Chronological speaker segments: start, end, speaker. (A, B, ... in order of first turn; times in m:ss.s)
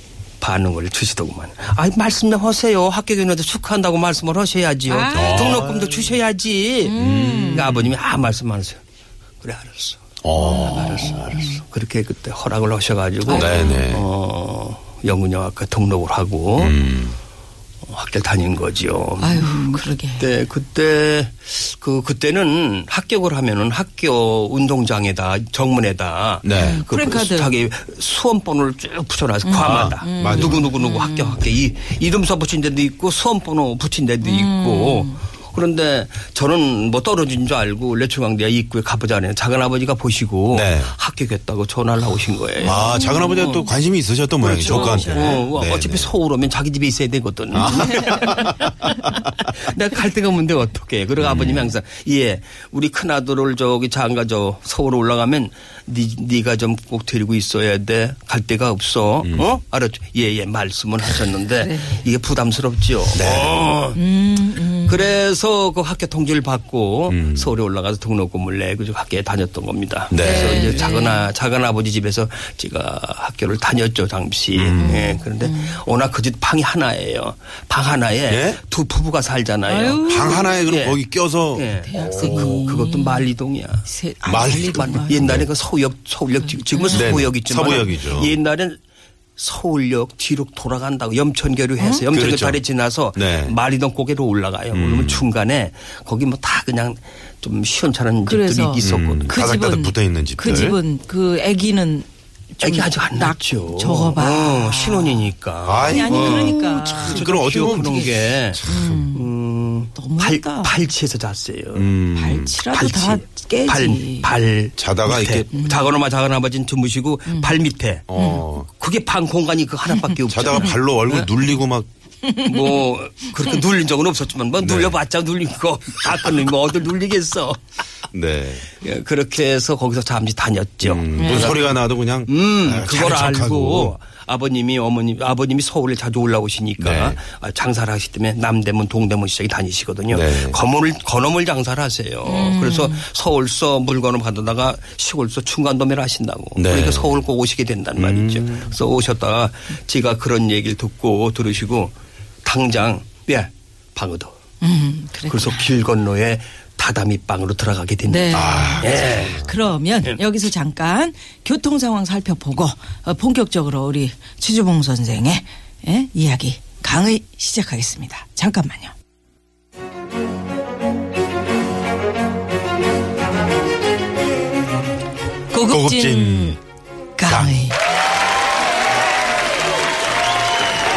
0:00.4-0:08.8 A
0:04.9-0:05.7 B
0:05.1-0:05.9 C
0:06.8-0:07.7 B
0:07.0-0:07.9 C
0:09.4-0:16.8 A
0:10.2-0:11.4 C
0:10.4-0:11.6 B
0:13.2-0:13.8 B
0:13.3-0:14.0 C
0:16.6-0:17.2 C
0:17.8-0:43.6 A
0:19.2-0:20.2 B
0:26.4-0:26.8 C
0:26.5-0:27.5 B
0:29.4-0:31.4 B
0:29.6-0:30.6 C
0:34.2-0:35.2 B
0:40.5-0:40.9 C
0:42.6-0:43.7 B
0:42.6-0:46.1 C
0:44.4-1:04.0 A
0:44.4-0:45.5 B
0:47.5-0:48.7 C
0:47.7-0:48.9 B
0:51.2-0:51.7 C
1:01.6-1:02.0 B
1:03.1-1:03.7 C
1:03.9-1:05.1 B
1:04.9-1:21.0 A
1:07.1-1:07.5 C
1:10.1-1:10.8 C
1:10.2-1:11.2 B
1:14.5-1:15.0 C
1:14.8-1:15.8 B
1:18.3-1:18.6 C
1:19.7-1:20.5 B
1:20.0-1:22.5 C
1:21.5-1:23.8 A
1:21.8-1:23.2 B
1:23.8-1:25.2 B
1:24.2-1:25.5 C
1:24.7-1:28.8 A
1:26.4-1:27.2 B
1:26.9-1:28.3 C
1:29.4-1:39.4 A
1:31.8-1:32.0 B
1:32.1-1:32.6 C
1:33.2-1:33.6 C
1:34.7-1:35.2 C
1:38.3-1:45.3 B
1:38.8-1:40.8 C
1:42.6-1:51.9 A
1:45.6-1:49.0 C
1:45.8-1:48.1 B
1:48.6-1:49.3 B
1:50.0-1:50.7 B
1:51.7-1:52.6 C
1:52.2-1:54.3 B
1:52.7-1:58.1 A
1:54.8-1:55.5 C
1:55.5-1:55.8 B
1:58.1-1:58.7 C
1:58.1-1:58.4 B
1:58.6-2:01.3 A
2:00.3-2:01.9 C
2:02.2-2:02.8 B
2:02.4-2:07.6 A
2:04.6-2:05.0 C
2:08.1-2:08.7 C
2:08.8-2:11.8 A
2:10.8-2:13.9 C
2:11.2-2:11.5 B
2:12.3-2:31.9 A
2:16.8-2:17.2 C
2:20.1-2:20.6 C
2:22.2-2:23.0 B
2:26.6-2:27.1 C
2:28.0-2:28.7 C
2:32.4-2:34.3 A
2:34.6-2:35.7 B
2:35.3-2:39.4 A
2:38.1-2:48.9 B
2:38.3-2:39.5 C
2:55.5-2:56.6 B
2:55.7-2:56.6 C
2:57.2-2:57.8 B
2:57.3-2:57.6 C